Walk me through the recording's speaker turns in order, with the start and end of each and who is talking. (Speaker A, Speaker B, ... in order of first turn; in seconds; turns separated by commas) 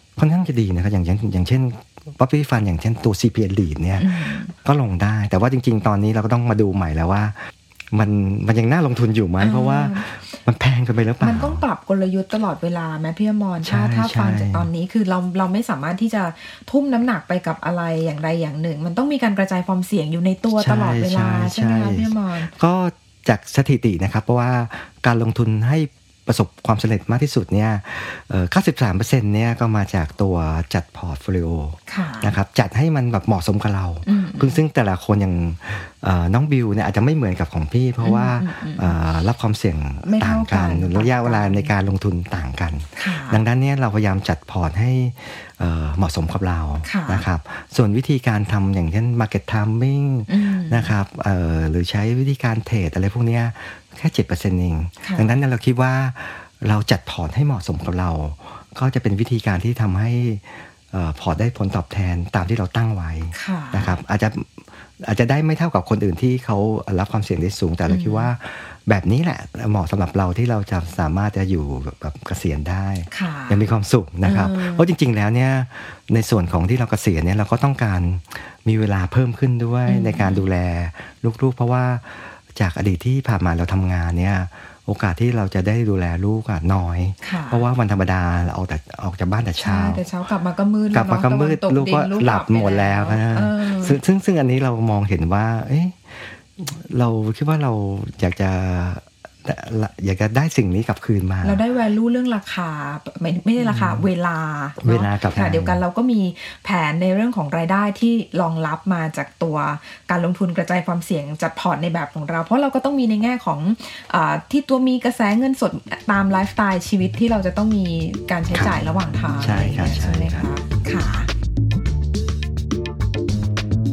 Speaker A: 0.2-11.6, Speaker B: 4.0-4.5, Speaker B: 9.4-10.1, Speaker B: 11.2-22.5, Speaker A: 13.6-14.7, Speaker A: 20.6-90.0, Speaker B: 31.9-32.3, Speaker B: 34.0-34.6, Speaker B: 38.0-38.9, Speaker B: 40.0-41.7, Speaker B: 43.0-43.4, Speaker B: 46.8-47.2, Speaker B: 50.3-50.9, Speaker B: 55.0-55.3, Speaker B: 63.3-64.0, Speaker B: 67.9-68.3, Speaker B: 73.1-73.6, Speaker B: 74.2-74.9, Speaker B: 79.8-80.4, Speaker B: 87.2-87.6, Speaker B: 89.6-94.0, Speaker A: 90.9-101.6, Speaker B: 101.4-121.3, Speaker A: 103.6-104.1, Speaker A: 104.8-105.8, Speaker A: 118.5-118.8, Speaker A: 119.4-120.5